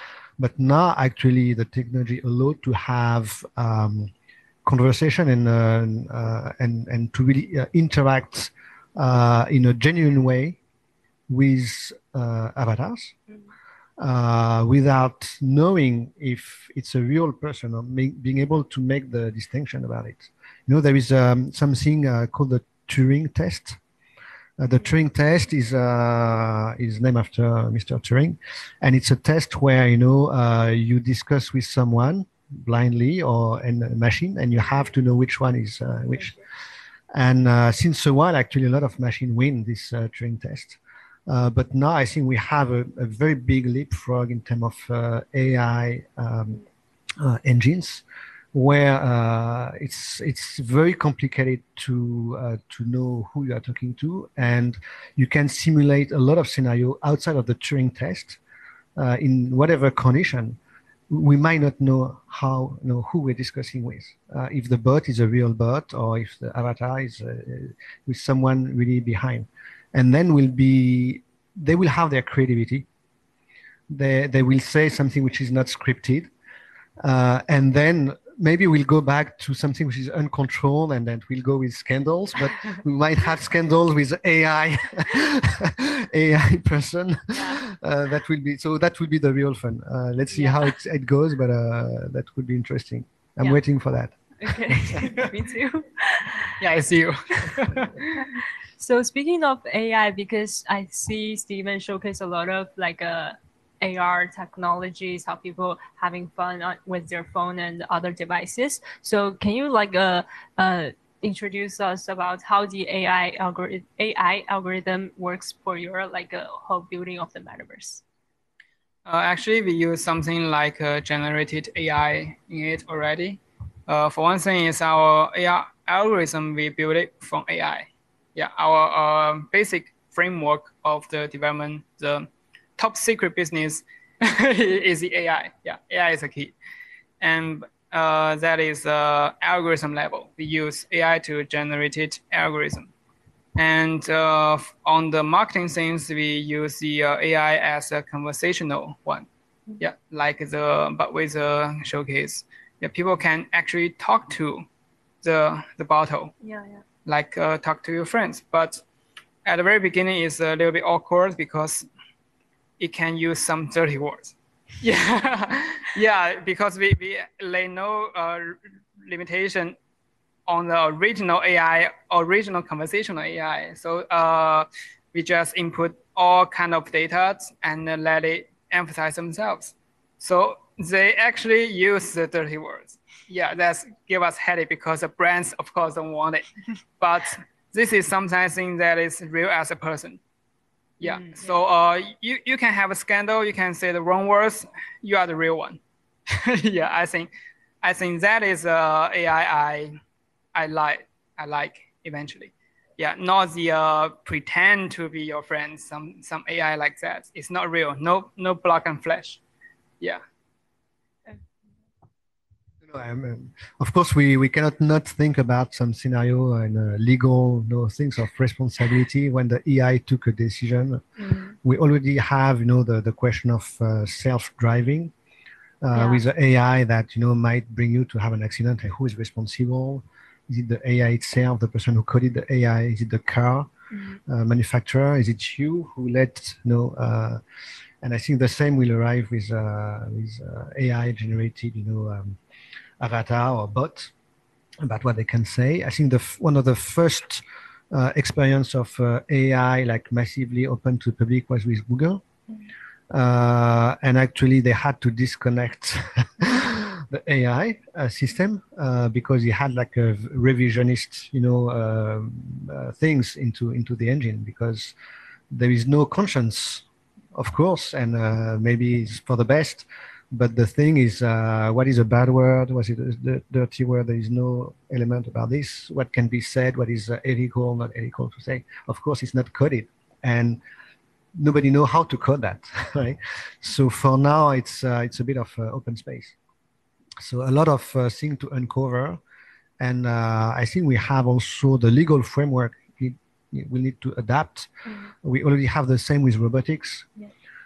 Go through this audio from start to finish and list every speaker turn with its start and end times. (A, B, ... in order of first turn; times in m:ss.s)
0:00.4-0:04.1 A
0:04.6-0:10.6 A
0:11.3-0:13.2 A
0:14.0-0:23.8 A
0:24.6-0:36.4 A
0:37.1-0:46.6 A
0:47.2-0:58.4 A
0:59.0-1:00.6 A
1:01.1-1:12.9 A
1:13.9-1:16.3 A
1:17.0-1:34.2 A
1:30.4-1:30.6 B
1:34.4-1:36.5 B
1:34.7-1:35.0 A
1:36.6-1:38.2 C
1:38.2-1:58.0 B
1:59.0-2:16.5 C
2:17.2-2:22.9 C
2:23.6-2:29.3 C
2:29.8-2:34.7 C
2:35.2-2:36.3 C
2:36.4-2:36.8 B
2:37.1-2:38.8 C
2:39.4-2:41.9 C
2:42.8-2:49.8 C
2:50.5-3:06.5 C
3:07.0-3:10.2 C
3:11.0-3:17.3 C
3:11.0-3:11.4 B
3:17.8-3:20.0 C
3:20.6-3:29.4 C
3:32.8-3:41.1 A
3:41.2-3:41.5 B
3:41.6-3:45.1 A
3:45.8-3:53.7 A
3:45.9-3:46.2 B
3:53.9-3:54.2 B
3:54.3-3:57.4 A
3:58.0-4:02.4 A
4:03.0-4:04.1 A
4:04.8-4:12.2 A
4:13.1-4:24.9 A
4:25.5-4:40.6 A
4:41.4-4:46.4 A
4:47.2-4:49.2 A
4:49.8-4:54.7 A
4:55.2-4:57.1 A